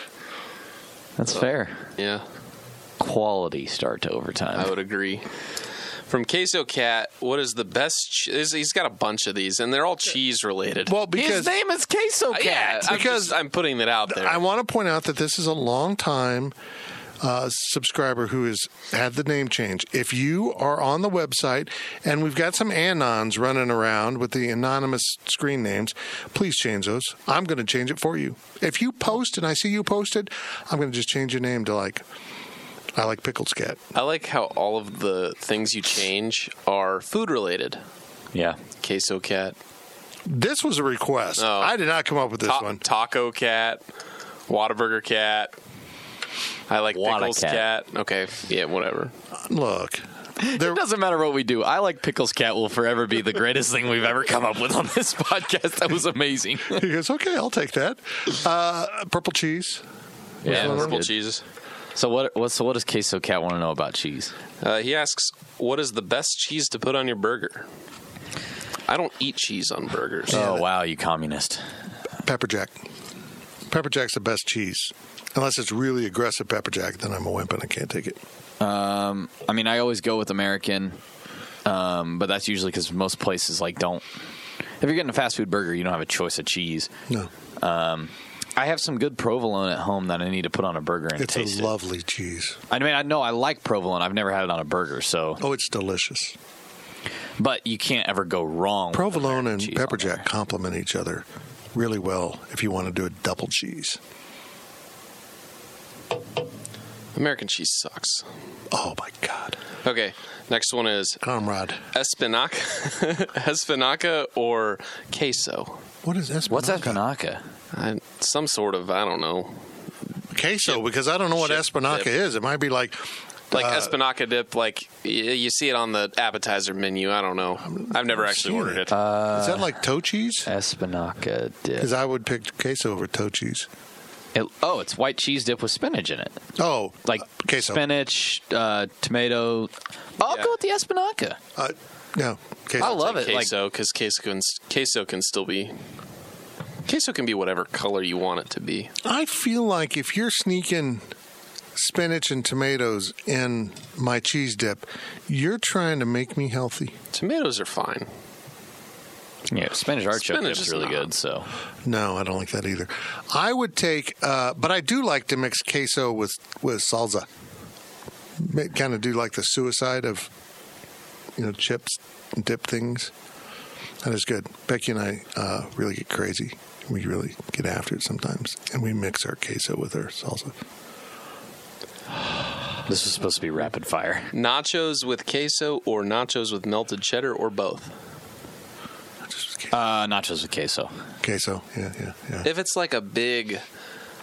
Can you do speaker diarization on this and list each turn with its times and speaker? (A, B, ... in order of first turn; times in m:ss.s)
0:01.2-0:01.8 A
0:02.0-0:02.2 B
0:03.0-0:04.7 A
0:04.5-0:05.3 B
0:06.1-0:10.9 B
0:10.9-0:11.5 C
0:11.1-0:13.0 A
0:12.3-0:14.4 B
0:12.9-0:13.3 C
0:14.1-0:16.5 C
0:17.2-0:32.0 C
0:32.9-0:33.8 C
0:33.9-0:37.8 B
0:38.8-0:39.6 B
0:40.3-0:42.8 C
0:41.4-0:41.8 B
0:42.4-0:43.8 B
0:44.5-0:45.6 B
0:46.7-0:49.1 B
0:46.9-0:47.6 A
0:49.4-0:50.8 C
0:50.4-0:56.8 A
0:56.7-0:59.8 C
1:00.4-1:01.0 C
1:00.4-1:01.1 A
1:00.4-1:01.4 B
1:02.0-1:04.3 A
1:04.6-1:07.7 B
1:08.9-1:10.5 B
1:10.3-1:11.6 A
1:10.3-1:10.6 C
1:12.2-1:12.8 C
1:13.7-1:18.2 C
1:18.6-1:21.0 A
1:21.6-1:24.0 A
1:24.8-1:26.9 A
1:27.6-1:31.7 A
1:31.2-1:32.6 C
1:32.7-1:35.4 A
1:35.4-1:36.4 C
1:37.4-1:40.2 A
1:38.9-1:44.0 C
1:47.1-1:48.3 B
1:48.7-1:49.6 C
1:49.8-1:51.2 B
1:51.2-1:51.8 C
1:51.9-1:55.8 B
1:56.0-1:57.0 C
1:56.5-1:57.4 A
1:57.7-1:59.6 B
2:00.3-2:03.9 C
2:00.6-2:02.1 B
2:03.5-2:08.9 B
2:07.6-2:10.5 C
2:08.9-2:09.7 A
2:10.4-2:11.9 A
2:11.8-2:13.7 C
2:14.3-2:16.4 A
2:16.6-2:17.8 C
2:17.0-2:21.4 A
2:20.2-2:20.5 B
2:21.6-2:23.0 C
2:22.8-2:23.5 A
2:22.8-2:25.7 B
2:26.8-2:28.9 B
2:29.0-2:31.0 C
2:31.8-2:36.9 C
2:37.1-2:38.1 B
2:39.5-2:41.5 A
2:40.1-2:41.1 B
2:41.8-2:47.3 C
2:48.4-2:50.3 C
2:51.4-2:53.1 C
2:54.0-3:00.5 C
3:02.8-3:04.3 A
3:04.3-3:07.9 B
3:09.3-3:09.7 C
3:09.7-3:10.9 A
3:11.2-3:12.5 C
3:12.4-3:13.6 B